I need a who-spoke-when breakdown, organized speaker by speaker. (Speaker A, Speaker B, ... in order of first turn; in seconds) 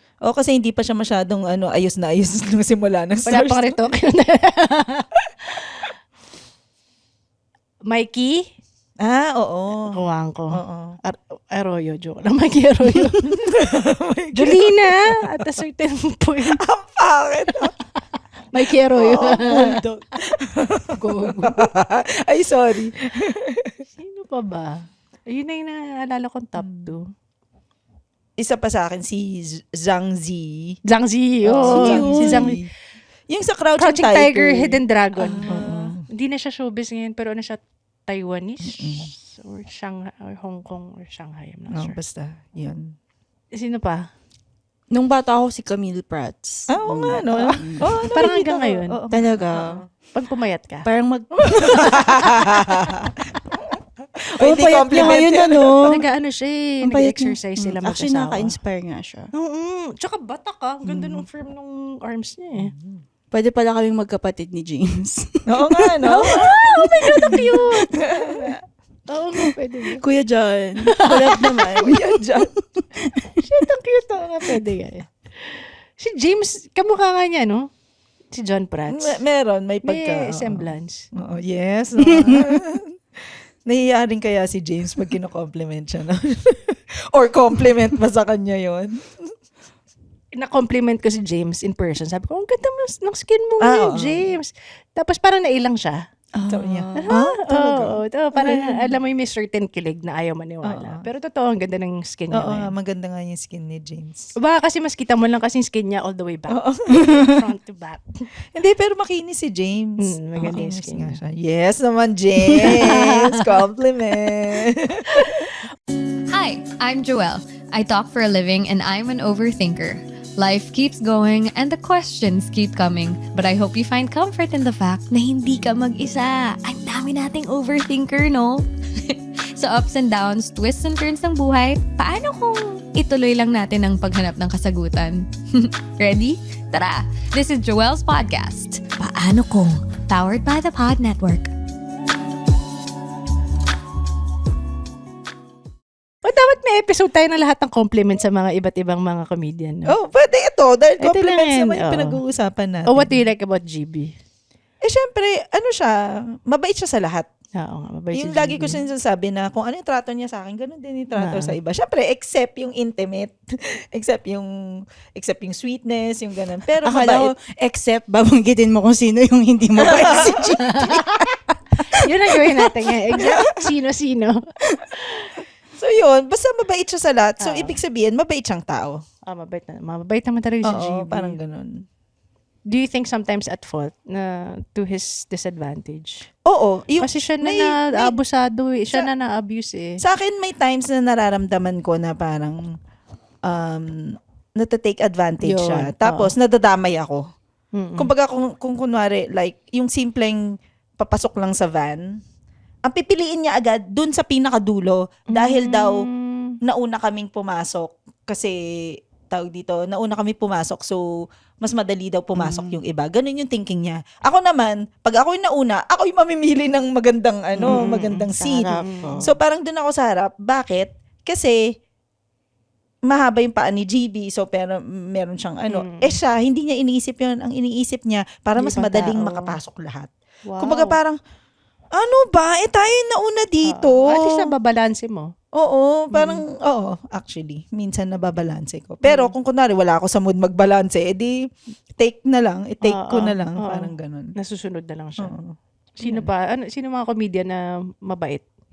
Speaker A: 0.2-3.7, 9.0-9.9, 10.5-11.0, 13.3-14.9, 16.6-17.7, 18.9-19.8, 20.4-23.7, 26.6-26.9, 28.4-30.8, 31.4-32.7, 33.3-34.8, 35.4-36.0, 38.7-39.1, 41.7-42.9, 46.7-49.8, 51.7-52.8, 54.4-56.0, 60.9-61.2, 62.5-63.0, 65.5-66.5, 67.2-67.4, 68.0-68.5, 71.6-72.5, 78.9-83.0, 83.7-89.2, 93.6-94.3, 96.5-98.9, 100.6-101.0, 102.3-104.3, 106.5-107.3, 108.5-115.5, 149.9-153.2, 154.8-157.3, 158.1-167.3, 169.8-170.5, 173.2-173.4, 175.8-179.0, 180.7-181.8, 186.4-188.2, 190.0-192.6, 193.4-197.2, 198.0-200.4, 201.0-202.1, 202.8-206.0, 206.6-208.6, 209.3-211.0, 211.6-221.6, 223.1-231.2, 231.9-234.5, 235.5-241.3, 242.0-244.3, 245.2-246.3
Speaker B: 3.2-5.9, 7.9-8.4, 9.9-13.5, 14.3-16.6, 18.5-19.8, 20.9-21.6, 24.0-27.1, 30.9-32.6, 33.8-42.0, 43.5-44.0, 48.1-49.0, 50.1-53.1, 55.9-58.5, 59.3-62.7, 66.0-68.5, 69.1-70.0, 70.9-71.5, 73.4-77.7, 78.3-79.2, 79.8-81.0, 90.3-96.0, 97.0-102.7, 104.4-108.0, 110.0-111.2, 112.4-113.6, 115.1-115.6, 146.2-149.9, 151.0-152.2, 152.9-154.1, 157.6-158.8, 161.2-161.6, 170.1-171.2, 171.9-174.4, 175.0-175.3, 177.4-177.7, 179.3-181.4, 182.7-186.3, 187.0-190.0, 195.4-196.3, 197.7-198.1, 205.3-206.6, 217.7-218.3, 218.8-219.2, 225.7-226.2, 228.6-229.6, 230.5-231.0, 233.6-235.3, 236.1-236.4, 239.0-239.3, 242.8-245.3, 246.0-248.4
Speaker C: 31.6-32.5, 35.2-35.9, 44.9-47.9, 49.1-49.8, 50.8-52.1, 54.4-56.0, 56.8-59.3, 63.3-67.8, 70.0-73.4, 96.3-97.1, 166.8-171.1, 212.3-212.8, 217.6-219.2
Speaker D: 116.3-141.5